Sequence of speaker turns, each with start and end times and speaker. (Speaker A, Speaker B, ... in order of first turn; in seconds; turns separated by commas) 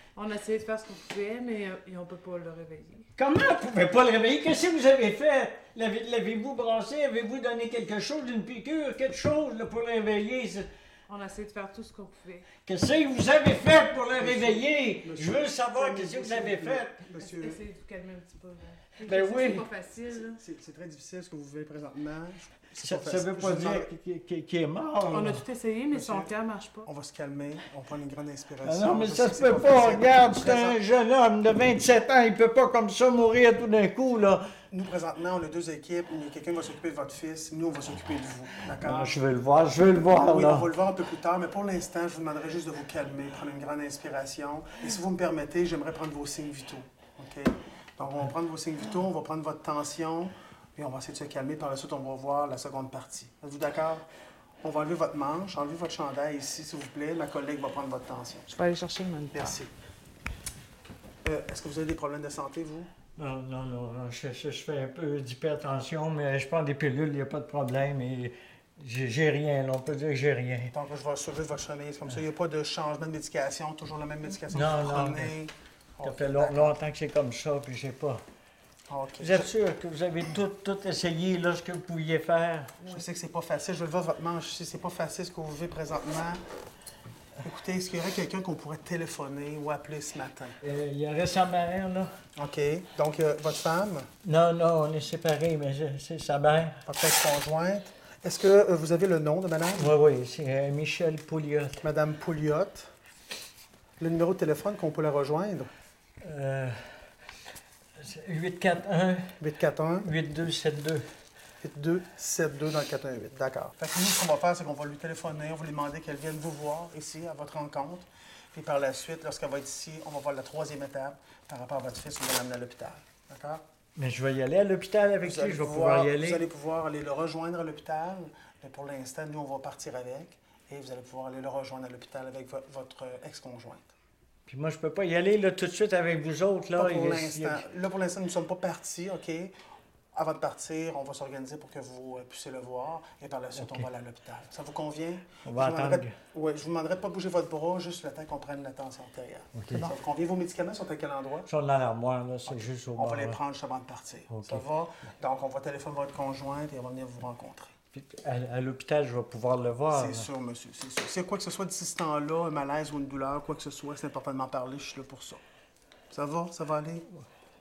Speaker A: 0.1-3.1, Speaker B: 3.2-10.7, Speaker A: 11.1-12.5, Speaker B: 12.6-16.9, Speaker C: 14.2-17.6, Speaker A: 17.2-20.4, Speaker B: 19.0-19.6, Speaker C: 20.1-23.9, Speaker B: 22.8-25.4, Speaker A: 25.1-26.9, Speaker C: 25.9-26.3, Speaker C: 26.9-30.8, Speaker B: 28.6-34.4, Speaker C: 34.7-39.2, Speaker B: 38.9-40.7, Speaker C: 40.1-54.1, Speaker C: 54.6-58.5, Speaker A: 58.5-59.6, Speaker C: 59.3-59.7, Speaker C: 61.2-62.9, Speaker B: 63.2-70.7, Speaker C: 70.7-76.8, Speaker B: 74.5-75.3, Speaker B: 76.0-78.2, Speaker C: 78.9-79.5, Speaker B: 79.2-82.8, Speaker C: 82.8-86.4, Speaker C: 87.4-90.5, Speaker B: 90.6-92.1, Speaker C: 92.4-94.1, Speaker B: 94.2-96.8, Speaker C: 96.9-99.9, Speaker B: 99.8-101.8, Speaker C: 101.8-102.9, Speaker C: 104.0-105.7, Speaker B: 106.2-106.8, Speaker B: 108.0-109.3, Speaker C: 109.4-110.1, Speaker B: 110.0-111.0, Speaker C: 111.6-123.6, Speaker B: 124.0-126.4, Speaker C: 125.2-133.9, Speaker B: 134.5-137.6, Speaker C: 136.8-139.5, Speaker C: 140.1-151.5, Speaker B: 143.6-143.8, Speaker B: 145.4-146.1, Speaker B: 149.6-149.9, Speaker B: 151.5-153.4, Speaker C: 152.5-157.7, Speaker B: 154.3-154.6, Speaker B: 157.9-160.3, Speaker C: 159.9-165.4, Speaker C: 166.1-167.1